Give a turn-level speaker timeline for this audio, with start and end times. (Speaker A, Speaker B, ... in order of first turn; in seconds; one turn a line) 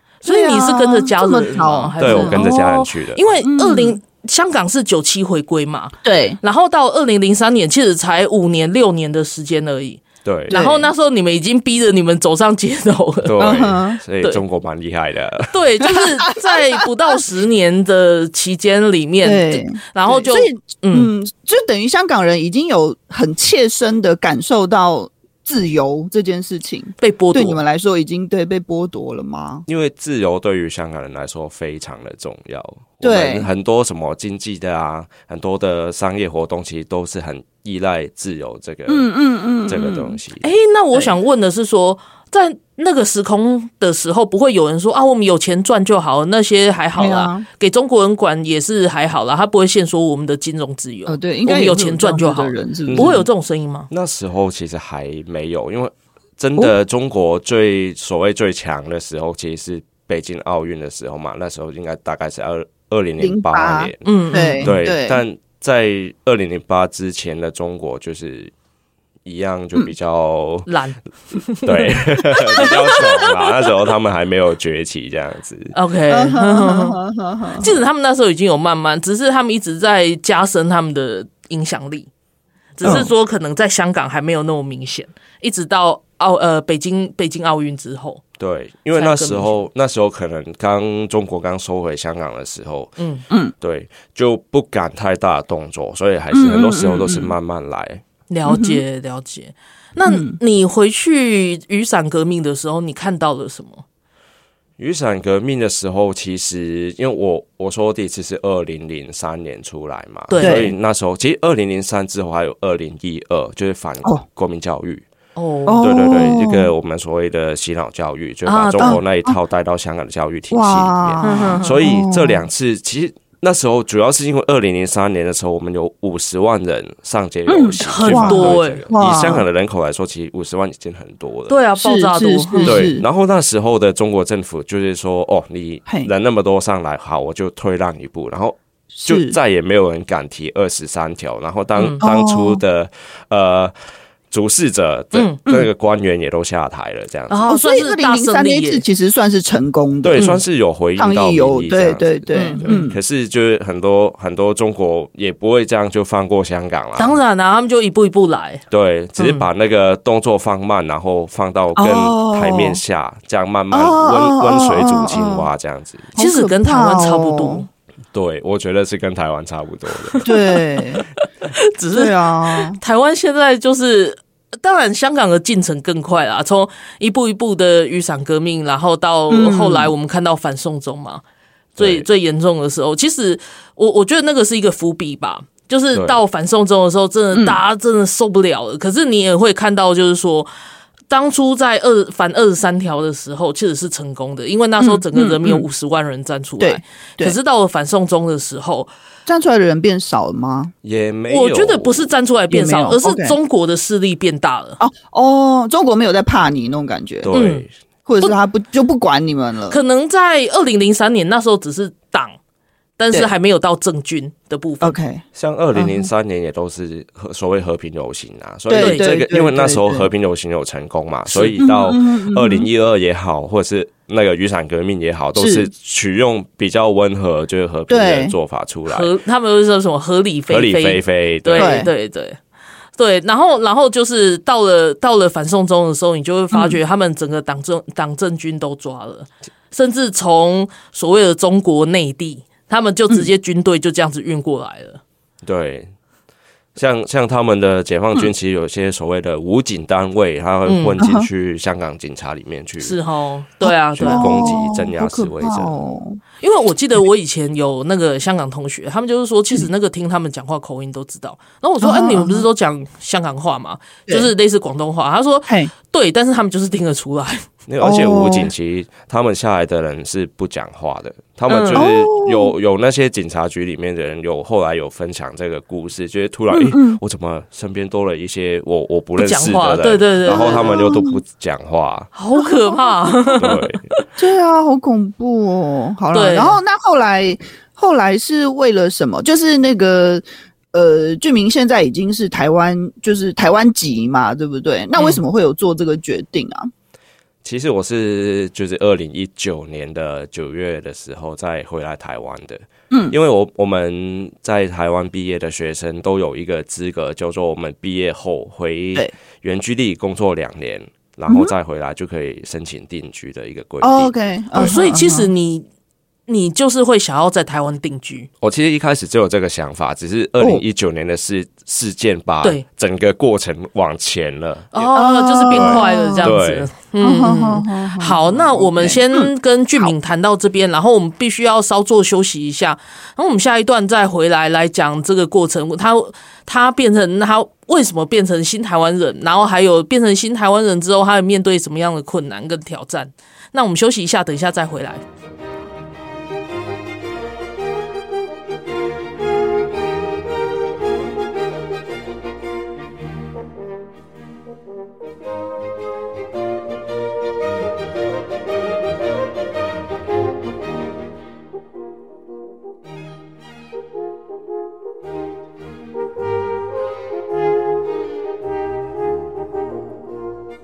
Speaker A: 0.2-13.4
Speaker B: 0.2-2.5
Speaker C: 2.0-3.2
Speaker B: 3.4-4.0
Speaker B: 6.0-6.4
Speaker C: 10.2-10.6
Speaker B: 10.5-10.9
Speaker C: 13.2-15.5
Speaker B: 13.4-14.0
Speaker A: 15.5-21.1
Speaker B: 15.8-17.2
Speaker B: 19.2-29.6
Speaker A: 27.0-27.6
Speaker C: 29.7-39.1
Speaker B: 33.0-33.5
Speaker B: 38.9-40.2
Speaker C: 39.7-40.5
Speaker A: 40.4-53.9
Speaker B: 47.0-47.5
Speaker B: 51.1-53.2
Speaker C: 52.9-53.2
Speaker C: 53.9-68.5
Speaker B: 63.2-65.2
Speaker A: 64.0-64.7
Speaker C: 69.2-70.7
Speaker A: 70.7-72.0
Speaker C: 71.7-75.7
Speaker A: 72.5-73.2
Speaker A: 75.7-77.0
Speaker B: 76.1-77.7
Speaker A: 77.6-82.1
Speaker A: 82.8-88.2
Speaker B: 82.8-83.1
Speaker C: 88.4-92.9
Speaker A: 89.0-89.6
Speaker A: 93.0-93.2
Speaker C: 93.6-98.0
Speaker B: 96.3-97.3
Speaker A: 98.3-103.8
Speaker B: 98.5-98.8
Speaker B: 100.0-100.4
Speaker C: 104.8-115.0
Speaker A: 110.3-110.7
Speaker B: 110.4-110.7
Speaker A: 115.4-115.9
Speaker B: 115.7-116.7
Speaker C: 115.8-131.6
Speaker A: 118.5-119.0
Speaker B: 118.8-119.4
Speaker B: 120.5-122.4
Speaker A: 121.2-121.7
Speaker B: 127.5-129.4
Speaker A: 127.8-128.8
Speaker A: 131.5-132.8
Speaker B: 131.8-133.0
Speaker C: 132.7-143.7
Speaker B: 138.9-139.4
Speaker A: 141.8-142.0
Speaker B: 142.0-142.6
Speaker C: 144.3-147.4
Speaker A: 145.1-145.4
Speaker A: 147.3-148.8
Speaker B: 147.5-150.3
Speaker C: 150.0-157.2
Speaker B: 151.0-153.0
Speaker A: 152.3-152.8
Speaker A: 157.0-158.6
Speaker C: 158.7-166.1
Speaker B: 161.8-162.8
Speaker B: 163.7-165.5
Speaker B: 166.2-167.7
Speaker A: 166.2-167.7
Speaker C: 168.1-170.2
Speaker B: 170.2-171.1
Speaker A: 171.6-181.2
Speaker B: 171.9-172.8
Speaker B: 179.3-179.9
Speaker C: 181.8-182.1
Speaker A: 181.8-190.5
Speaker C: 185.9-186.2
Speaker A: 191.1-198.9
Speaker B: 194.8-195.7
Speaker B: 196.6-197.4
Speaker B: 199.3-200.7
Speaker C: 200.8-202.1
Speaker A: 201.3-204.8
Speaker B: 202.5-203.4
Speaker B: 204.8-207.3
Speaker C: 207.2-207.7
Speaker A: 207.3-207.7
Speaker B: 208.1-209.8
Speaker A: 209.7-212.4
Speaker A: 213.0-215.0
Speaker B: 214.8-215.2
Speaker C: 215.4-229.1
Speaker B: 215.8-216.1
Speaker B: 218.7-220.1
Speaker A: 218.8-219.1
Speaker A: 221.3-221.6
Speaker B: 221.6-222.7
Speaker B: 225.4-225.7
Speaker B: 227.9-228.3
Speaker A: 228.9-232.4
Speaker C: 230.5-231.8
Speaker B: 231.6-231.9
Speaker A: 233.0-245.0
Speaker B: 236.5-236.8
Speaker C: 245.4-245.9
Speaker C: 246.8-253.0
Speaker A: 250.7-250.9
Speaker B: 251.0-251.3
Speaker A: 252.8-254.6
Speaker B: 253.7-256.2
Speaker C: 253.9-255.7
Speaker A: 256.4-267.5
Speaker B: 261.8-262.5
Speaker C: 267.7-282.1
Speaker B: 267.8-268.5
Speaker A: 271.5-271.9
Speaker B: 271.8-272.5
Speaker B: 276.5-277.0
Speaker A: 279.2-280.8
Speaker B: 280.3-281.2
Speaker A: 282.1-284.0
Speaker B: 282.3-283.3
Speaker C: 283.4-283.9
Speaker B: 284.2-296.7
Speaker A: 286.1-286.6
Speaker A: 295.0-295.2
Speaker C: 297.4-314.7
Speaker B: 313.8-315.3
Speaker A: 314.6-315.7
Speaker A: 316.3-318.3
Speaker C: 318.4-325.0
Speaker A: 324.7-345.0
Speaker B: 324.9-326.4
Speaker C: 325.5-326.7
Speaker B: 327.0-329.9